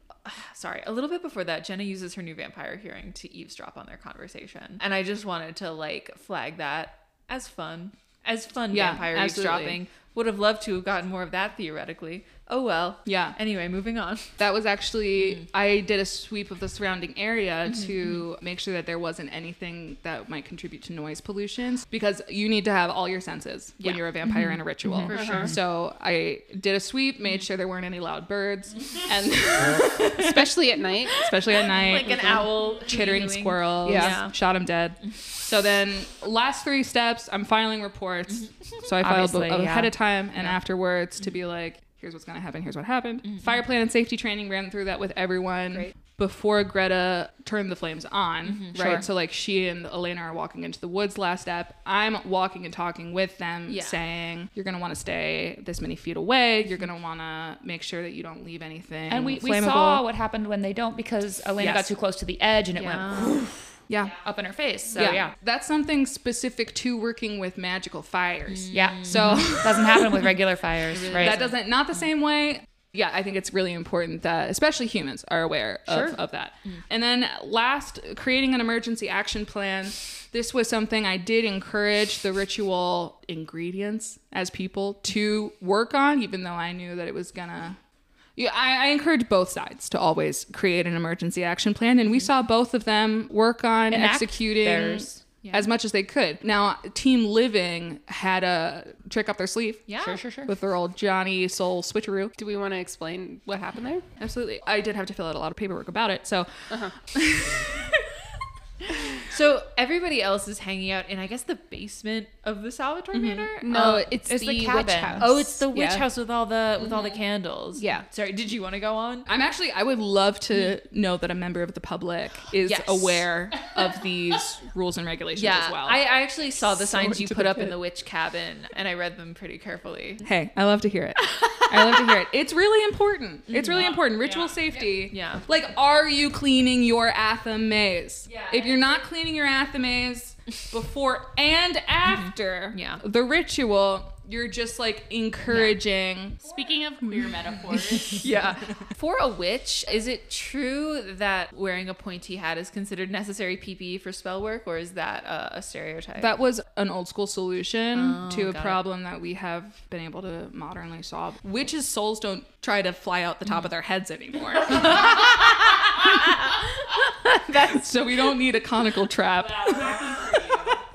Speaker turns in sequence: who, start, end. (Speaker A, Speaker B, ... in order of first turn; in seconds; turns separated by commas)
Speaker A: 0.2-14.3, Speaker B: 8.7-9.8, Speaker B: 13.1-13.4, Speaker B: 14.4-30.5, Speaker A: 17.7-18.0, Speaker A: 23.8-24.1, Speaker C: 24.3-25.1, Speaker A: 25.1-25.5, Speaker D: 25.1-25.5, Speaker D: 29.9-31.4, Speaker B: 31.1-60.0, Speaker A: 31.6-34.3, Speaker D: 32.1-32.4, Speaker D: 33.8-34.2, Speaker C: 39.0-40.0, Speaker A: 48.5-49.1, Speaker A: 53.7-54.0, Speaker C: 59.1-63.5, Speaker B: 61.6-62.0, Speaker A: 62.8-63.5, Speaker B: 63.9-64.2, Speaker C: 64.2-65.3, Speaker B: 64.9-70.3, Speaker C: 68.7-71.4, Speaker A: 70.9-71.5, Speaker B: 71.1-87.8, Speaker C: 75.9-76.2, Speaker B: 88.4-102.3, Speaker C: 93.9-95.2, Speaker A: 95.4-95.7, Speaker A: 99.9-100.2, Speaker C: 100.0-100.5, Speaker D: 102.4-104.0, Speaker B: 104.2-108.0, Speaker A: 109.3-114.0, Speaker B: 113.1-113.5, Speaker D: 113.6-116.1, Speaker C: 113.7-115.3, Speaker A: 115.2-119.3, Speaker D: 117.8-118.1, Speaker B: 119.3-126.0, Speaker A: 122.6-123.3, Speaker A: 125.3-130.2, Speaker B: 127.0-127.7, Speaker B: 130.2-146.4, Speaker A: 133.5-133.9, Speaker E: 133.8-134.6, Speaker A: 135.1-135.4, Speaker A: 142.1-143.0, Speaker A: 145.5-145.8, Speaker E: 146.4-148.3, Speaker B: 147.7-148.0, Speaker A: 148.0-156.3, Speaker B: 156.2-165.4, Speaker A: 157.9-158.8, Speaker A: 164.9-166.4, Speaker A: 167.1-167.9, Speaker B: 167.6-170.7, Speaker E: 169.4-170.8